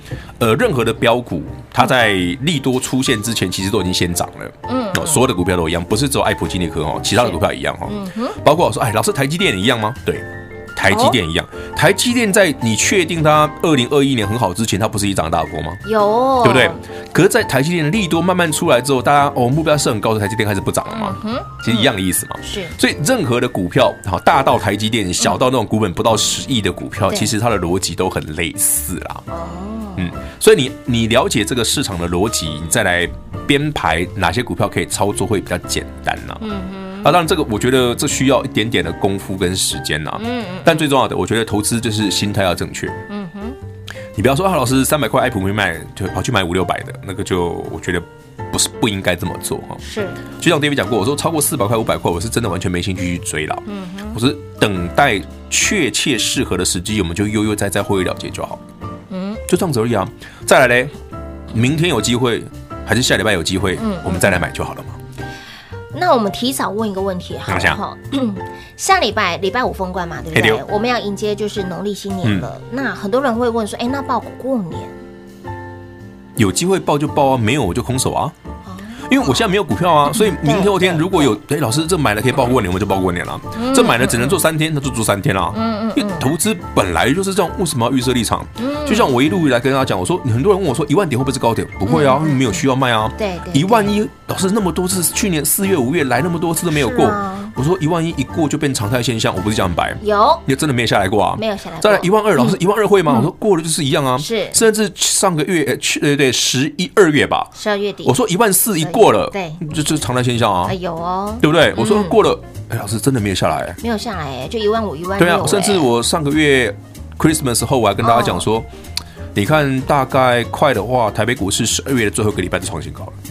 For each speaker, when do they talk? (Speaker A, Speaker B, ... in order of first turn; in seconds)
Speaker A: 0.4-15.8, 16.4-29.2, 30.0-36.4, 37.0-43.0, 44.1-49.8, 50.4-53.6, 54.1-58.6, 59.5-60.9, 61.5-65.0, 67.5-67.8, 70.3-70.6, 76.4-78.3, 79.1-107.5, 108.0-110.7, 111.4-113.8, 115.2-118.7, 119.3-123.2
Speaker B: 4.7-5.2, 7.2-8.4, 10.9-11.2, 15.8-16.8, 20.9-21.9, 22.4-22.8, 29.3-30.1, 36.4-37.2, 40.2-40.9, 43.1-43.6, 49.8-50.2, 53.7-54.2, 59.1-59.4, 63.8-64.4, 65.9-74.9, 78.7-79.5, 80.1-81.4, 83.6-84.4, 85.5-86.3, 88.6-89.1, 91.8-92.6, 93.2-94.0, 96.7-97.5, 100.0-100.4, 101.4-103.3, 104.2-104.6, 107.6-108.1, 108.8-109.6, 110.7-112.2, 113.8-115.9, 118.0-118.5